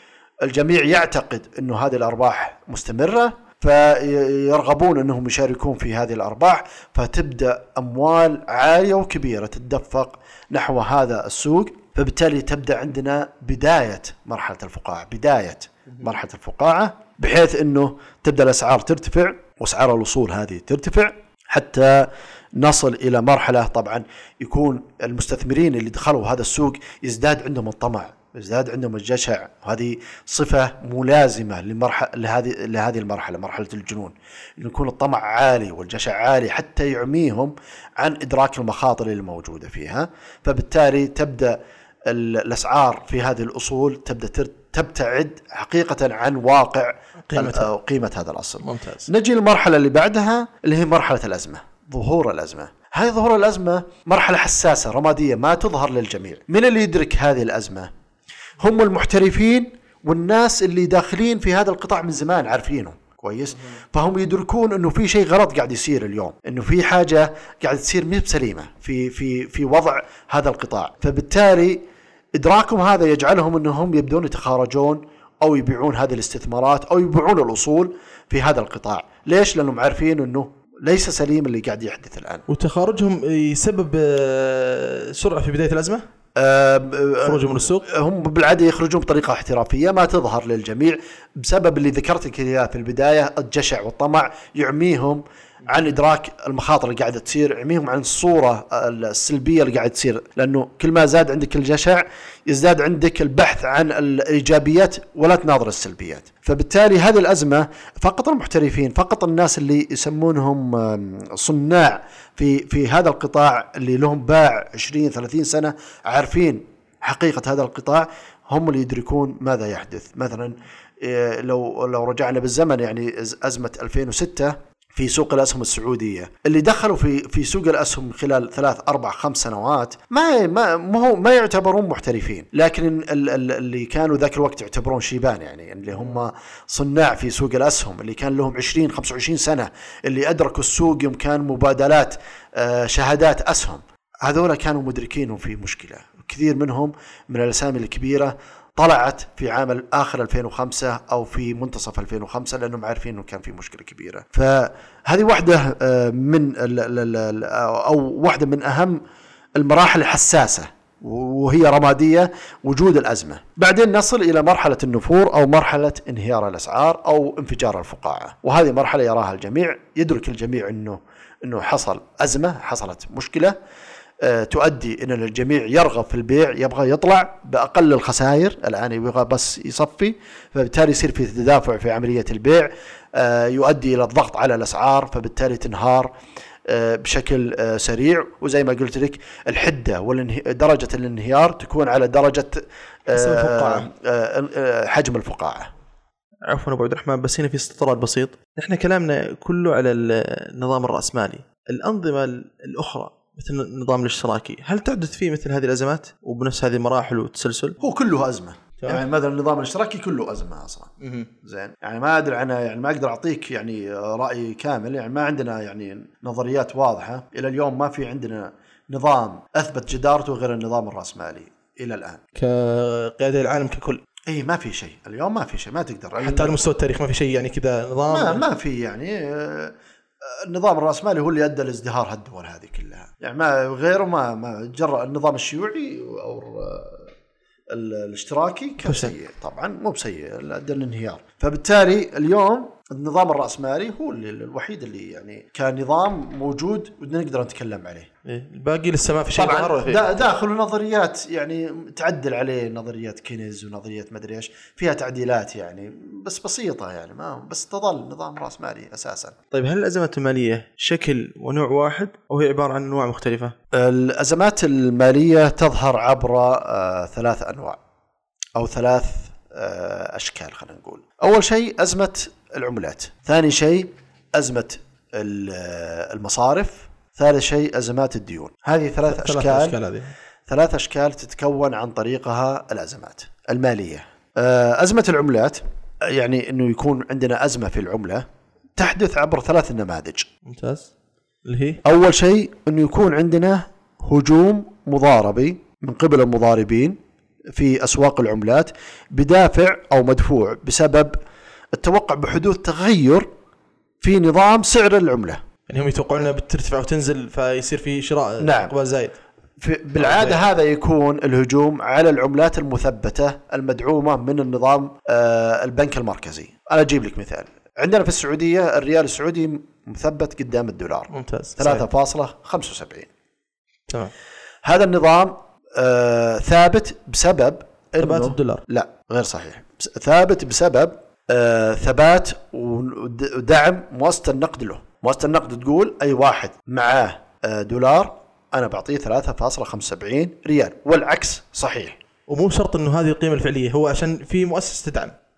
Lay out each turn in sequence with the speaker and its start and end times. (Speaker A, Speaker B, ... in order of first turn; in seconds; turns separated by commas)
Speaker A: 0.4-57.9, Speaker B: 47.3-47.7, Speaker B: 48.6-49.1, Speaker A: 58.6-71.8, Speaker A: 72.3-82.4, Speaker B: 82.5-86.0, Speaker A: 86.3-159.0, Speaker B: 87.2-87.9, Speaker A: 159.6-173.5, Speaker A: 174.2-186.1, Speaker A: 186.7-195.7, Speaker B: 193.1-193.9, Speaker B: 196.5-207.8, Speaker A: 207.8-210.9, Speaker B: 211.0-211.3, Speaker A: 211.4-222.2, Speaker B: 222.3-224.0, Speaker A: 224.3-226.6, Speaker B: 226.2-228.4, Speaker A: 228.1-229.7, Speaker A: 230.3-237.1, Speaker A: 237.7-248.1, Speaker B: 238.8-239.1, Speaker B: 248.2-250.3, Speaker A: 249.3-259.4, Speaker B: 259.5-263.5, Speaker A: 263.7-267.8, Speaker A: 268.6-279.8, Speaker B: 279.1-280.1, Speaker A: 280.5-288.2, Speaker A: 288.8-290.3, Speaker B: 290.4-290.9, Speaker B: 291.4-291.8, Speaker A: 291.8-297.0, Speaker A: 297.6-301.1, Speaker A: 301.7-303.3, Speaker A: 304.0-305.4, Speaker B: 305.7-309.2, Speaker A: 308.4-308.7, Speaker A: 309.6-323.1, Speaker B: 310.0-310.4, Speaker B: 321.1-321.8, Speaker A: 324.6-342.0, Speaker B: 328.0-328.6, Speaker B: 342.3-345.1